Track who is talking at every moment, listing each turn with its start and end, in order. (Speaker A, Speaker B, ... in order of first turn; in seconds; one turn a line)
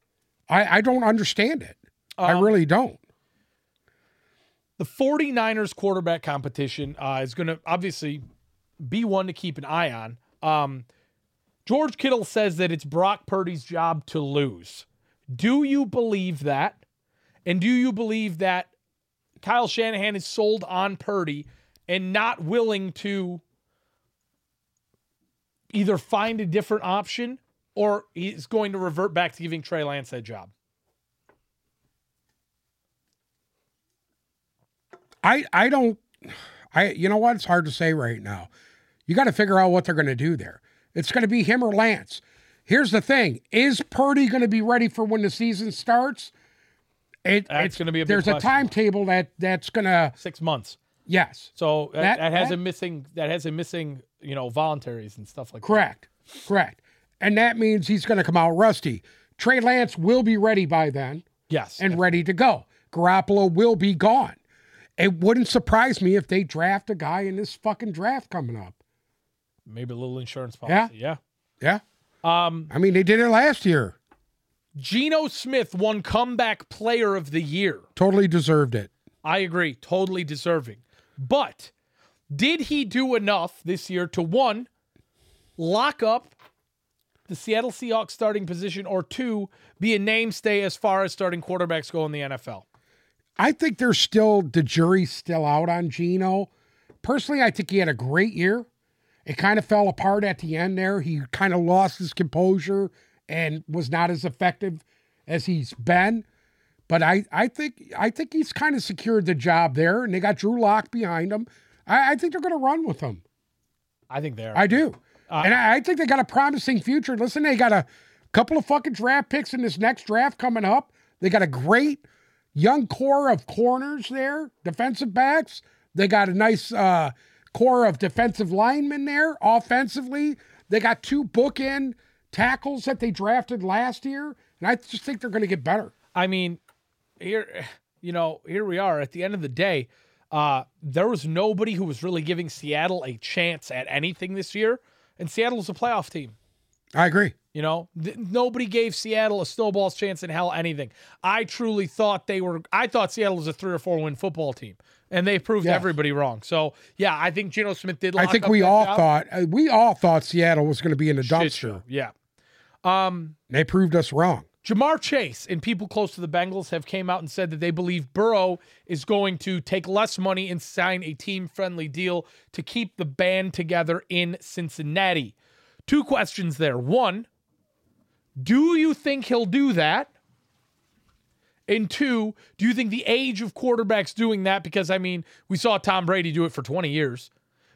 Speaker A: 0.5-3.0
Speaker B: 2.2-2.5
Speaker B: 4.8-8.2
Speaker B: 8.8-10.9
Speaker B: 11.7-16.8
Speaker B: 17.5-18.7
Speaker B: 19.4-23.4
Speaker B: 25.7-30.5
Speaker A: 35.2-38.5
Speaker A: 39.1-46.3
Speaker A: 47.2-50.2
Speaker B: 47.5-48.7
Speaker B: 50.2-50.8
Speaker A: 51.1-52.6
Speaker B: 51.6-55.8
Speaker A: 55.6-61.3
Speaker B: 61.5-62.0
Speaker A: 61.8-64.4
Speaker A: 65.0-68.8
Speaker B: 69.7-71.2
Speaker A: 70.7-70.9
Speaker B: 72.2-72.7
Speaker A: 72.7-74.0
Speaker B: 74.8-77.8
Speaker A: 78.0-78.9
Speaker B: 79.2-81.7
Speaker B: 82.3-84.7
Speaker B: 85.6-86.3
Speaker B: 87.3-92.7
Speaker A: 93.4-96.5
Speaker A: 97.0-98.7
Speaker A: 99.3-106.2
Speaker A: 106.9-113.2
Speaker B: 114.1-115.5
Speaker A: 114.5-122.0
Speaker A: 122.5-135.9
Speaker B: 136.2-136.6
Speaker B: 137.2-146.3
Speaker A: 146.9-147.4
Speaker B: 147.5-159.1
Speaker A: 155.6-155.9
Speaker A: 158.2-161.8
Speaker B: 161.2-162.1
Speaker B: 162.8-163.3
Speaker A: 163.5-164.5
Speaker B: 164.6-175.3
Speaker B: 175.9-177.3
Speaker B: 178.4-180.1
Speaker B: 181.7-187.3